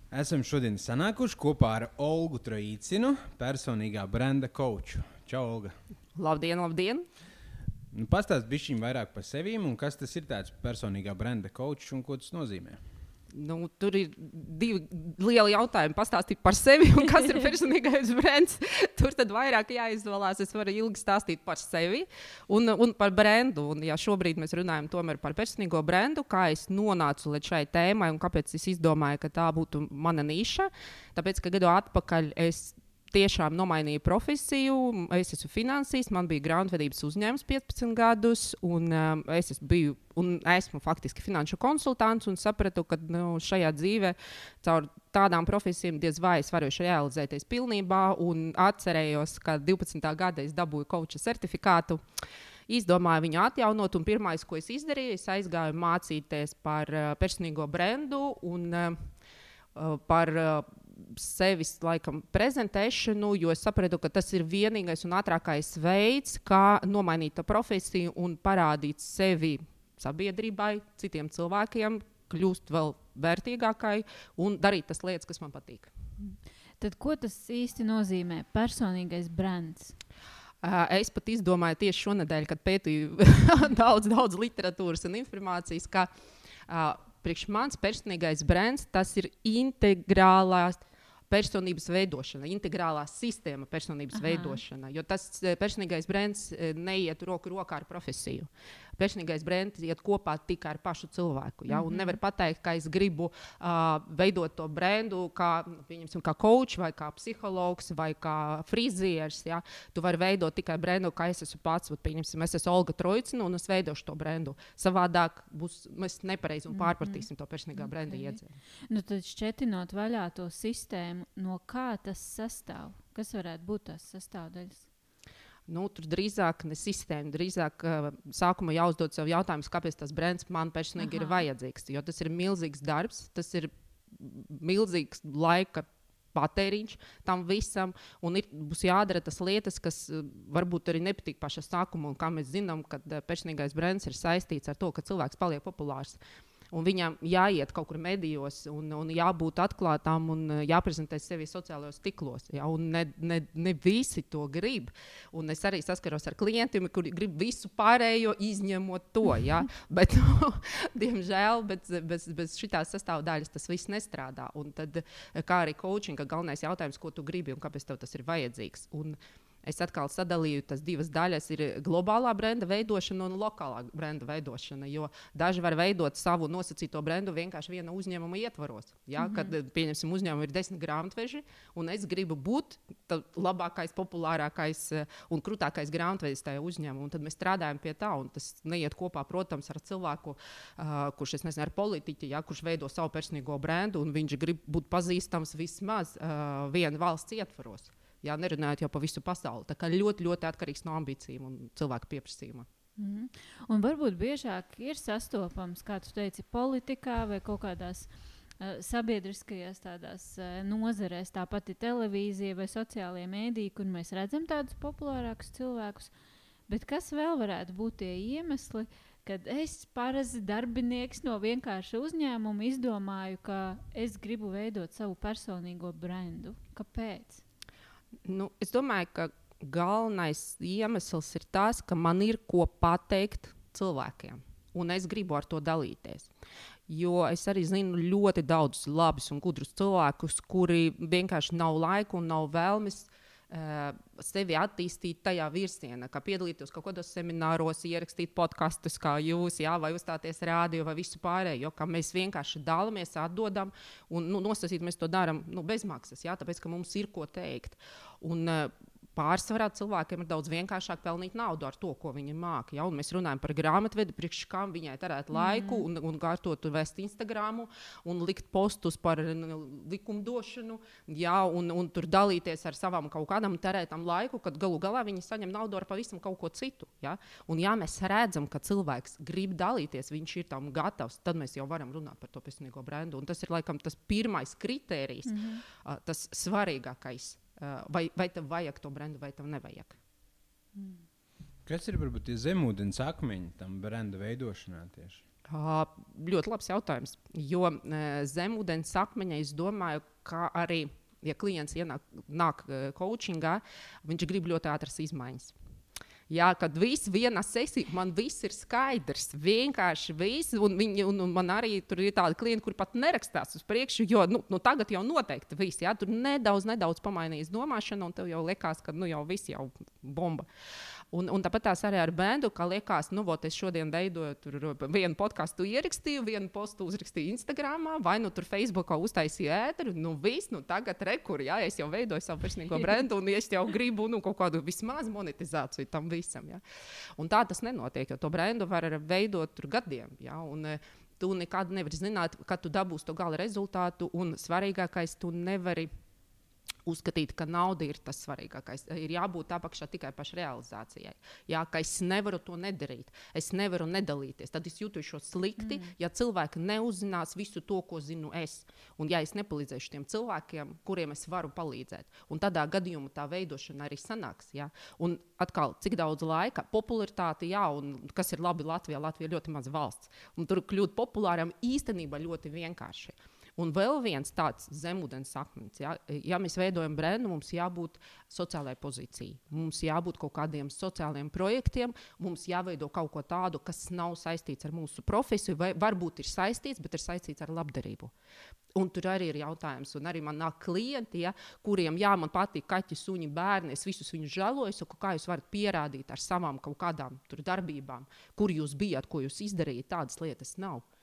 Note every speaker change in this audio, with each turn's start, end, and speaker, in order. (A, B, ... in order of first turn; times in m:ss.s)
0:00.1-0:05.8 A
0:06.2-0:07.0 B
0:07.9-0:12.8 A
0:13.3-0:52.0 B
0:52.7-0:59.0 B
0:59.7-1:15.9 B
1:16.2-1:20.0 C
1:20.6-1:26.1 B
1:26.7-1:58.6 B
1:34.1-1:34.6 C
1:41.7-1:42.2 C
1:56.7-1:58.4 C
1:58.9-2:04.9 C
2:05.7-2:26.2 B
2:11.0-2:11.4 C
2:26.7-3:22.7 B
2:59.2-2:59.5 C
3:23.0-3:28.1 C
3:28.6-3:36.1 C
3:36.7-3:47.4 C
3:48.2-3:56.3 B
3:56.9-4:50.0 B
4:25.3-4:25.8 C
4:45.2-4:45.6 C
4:50.7-4:51.0 C
4:51.6-4:55.2 A
4:55.5-5:05.5 B
5:06.3-5:20.4 B
5:21.1-5:36.6 B
5:37.2-5:45.9 B
5:46.8-6:28.1 B
5:55.6-5:55.9 C
6:28.7-6:40.8 B